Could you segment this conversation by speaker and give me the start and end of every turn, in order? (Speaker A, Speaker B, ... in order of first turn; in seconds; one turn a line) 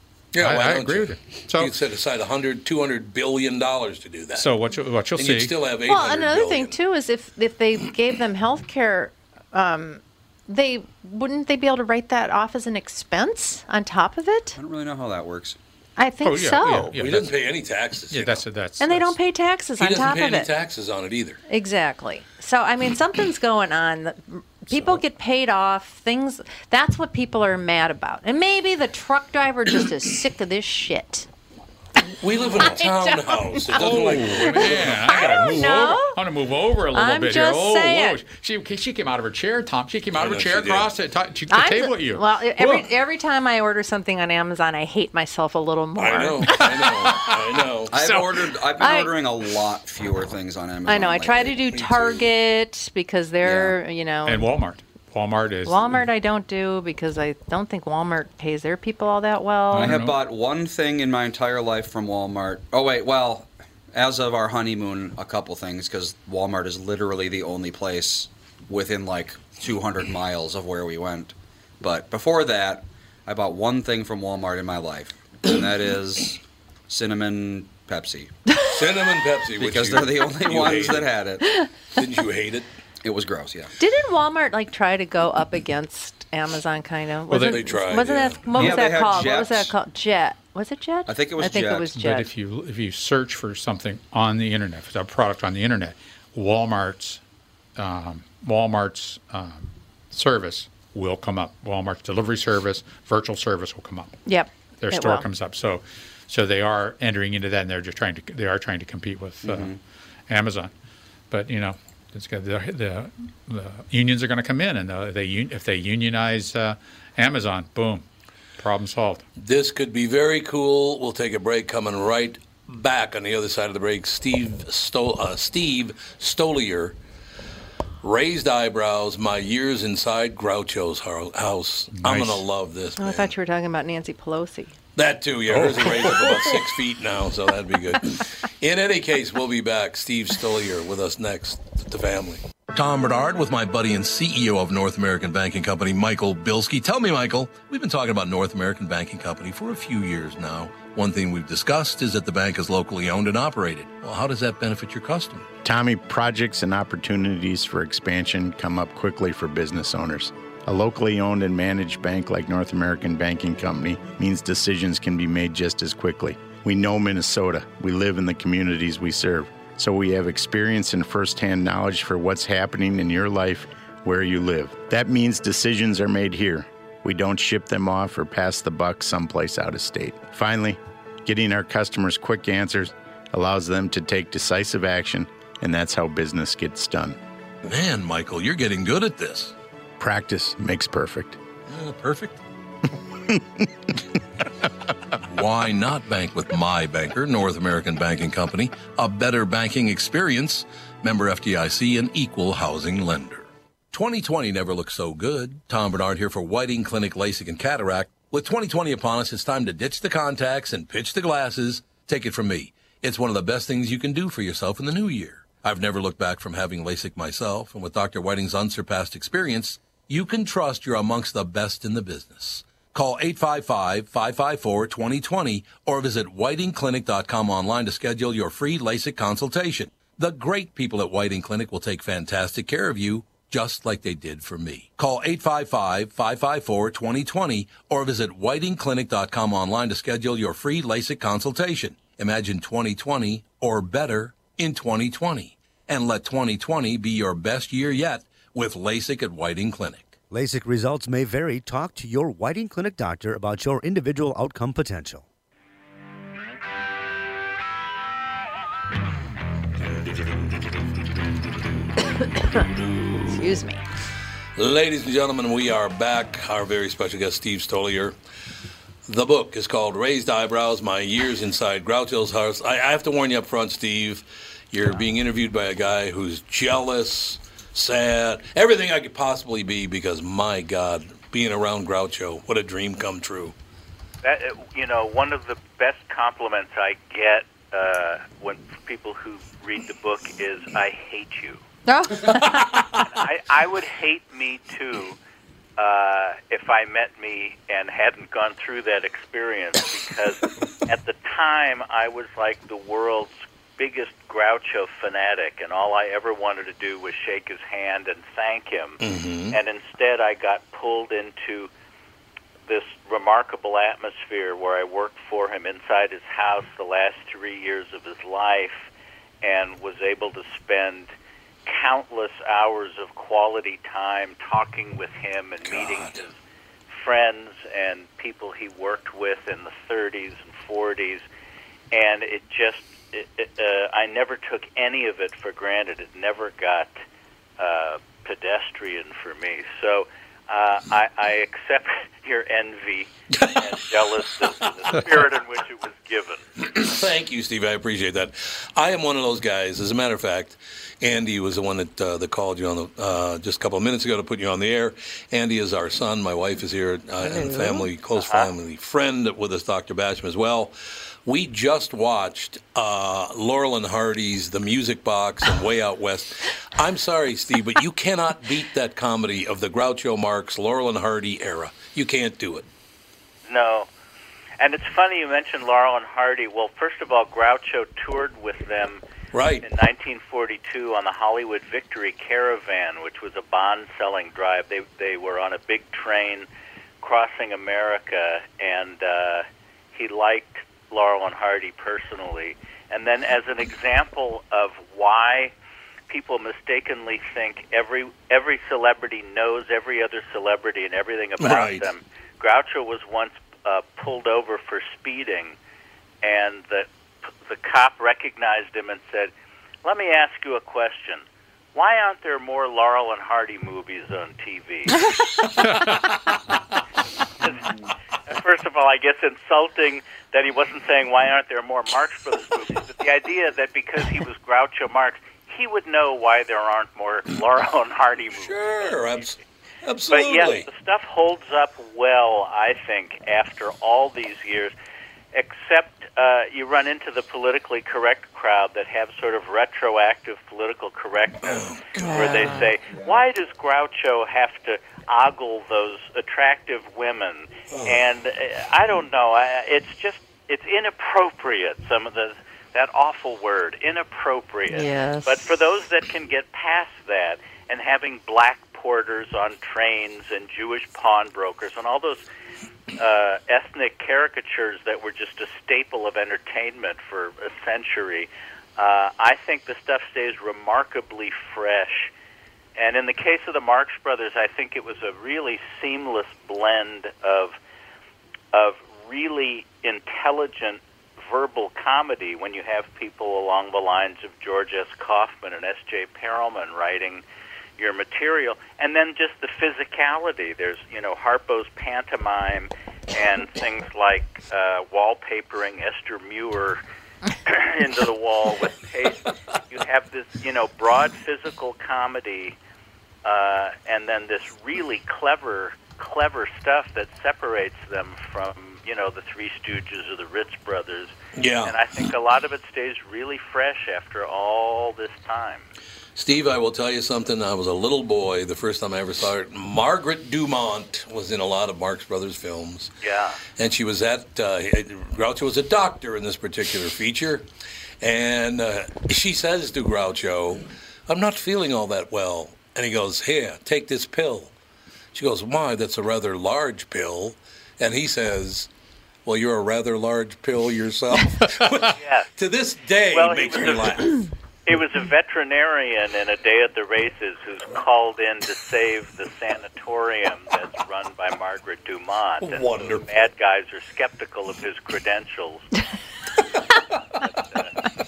Speaker A: 0.3-4.5
Speaker B: 0.4-1.7
Speaker B: 4.3-5.5
Speaker A: 5.2-6.8
Speaker C: 5.9-14.6
Speaker D: 14.6-15.6
Speaker C: 16.0-16.9
Speaker B: 16.2-19.2
Speaker A: 16.9-18.4
Speaker C: 18.8-20.5
Speaker A: 19.8-21.4
Speaker C: 21.5-31.3
Speaker C: 32.0-36.2
Speaker A: 32.2-35.1
Speaker B: 33.7-42.9
Speaker C: 36.9-38.2
Speaker A: 40.2-40.9
Speaker C: 41.5-47.3
Speaker A: 46.0-48.5
Speaker D: 47.9-51.6
Speaker C: 48.8-49.1
Speaker C: 50.9-54.5
Speaker A: 51.7-52.2
Speaker D: 53.4-53.8
Speaker B: 54.3-55.9
Speaker C: 55.6-60.0
Speaker B: 59.7-60.2
Speaker D: 59.8-78.3
Speaker A: 78.7-81.1
Speaker D: 79.6-81.4
Speaker C: 81.4-81.7
Speaker A: 82.0-82.7
Speaker D: 83.0-83.7
Speaker C: 83.8-92.3
Speaker B: 87.3-87.6
Speaker A: 87.5-88.5
Speaker D: 88.5-89.7
Speaker D: 91.1-91.9
Speaker B: 92.0-97.2
Speaker B: 97.8-104.2
Speaker C: 104.3-105.3
Speaker B: 104.8-109.7
Speaker D: 109.4-109.8
Speaker B: 110.3-110.7
Speaker B: 111.3-118.0
Speaker B: 118.6-119.2
Speaker A: 119.4-127.0
Speaker A: 128.0-133.3
Speaker B: 132.0-132.4
Speaker C: 133.0-134.8
Speaker A: 135.0-155.5
Speaker B: 135.6-136.1
Speaker E: 155.6-187.2
Speaker A: 187.6-189.6
Speaker E: 190.0-191.4
Speaker A: 191.7-192.4
Speaker E: 193.3-193.7
Speaker A: 195.3-250.1
Speaker F: 250.3-255.2
Speaker C: 262.1-262.6
Speaker C: 263.3-263.8
Speaker A: 264.6-268.2
Speaker A: 269.1-283.6
Speaker G: 284.2-291.6
Speaker C: 291.9-292.7
Speaker A: 292.5-293.1
Speaker G: 293.1-295.2
Speaker G: 295.8-309.0
Speaker A: 309.0-309.6
Speaker G: 309.5-311.7
Speaker G: 312.7-318.9
Speaker G: 319.4-321.1
Speaker G: 321.7-326.4
Speaker A: 325.7-326.3
Speaker G: 326.9-331.2
Speaker G: 331.9-336.9
Speaker G: 337.6-346.5
Speaker A: 343.3-343.9
Speaker A: 346.6-360.7
Speaker G: 358.2-358.5
Speaker A: 361.2-372.7
Speaker G: 373.5-373.9
Speaker G: 374.6-379.0
Speaker A: 379.3-379.7
Speaker G: 379.6-386.5
Speaker G: 387.0-395.5
Speaker G: 396.1-405.6
Speaker A: 401.4-401.9
Speaker G: 406.2-406.9
Speaker G: 407.4-409.3
Speaker G: 409.8-415.1
Speaker B: 415.7-416.0
Speaker G: 417.4-417.7
Speaker G: 418.3-429.0
Speaker A: 428.4-430.7
Speaker G: 430.1-434.7
Speaker G: 435.3-462.2
Speaker A: 441.4-442.7
Speaker C: 442.0-442.7
Speaker A: 447.7-448.0
Speaker C: 454.7-455.4
Speaker G: 463.0-472.1
Speaker G: 472.8-477.6
Speaker G: 478.5-487.2
Speaker G: 487.8-496.8
Speaker G: 497.4-502.6
Speaker G: 503.2-515.7
Speaker A: 511.4-511.8
Speaker A: 516.1-522.9
Speaker G: 523.0-523.4
Speaker A: 523.6-527.5
Speaker A: 528.0-534.5
Speaker A: 535.1-538.7
Speaker A: 539.3-544.3
Speaker G: 542.0-542.3
Speaker G: 543.1-544.0
Speaker G: 544.7-555.8
Speaker A: 552.4-553.1
Speaker G: 557.2-557.7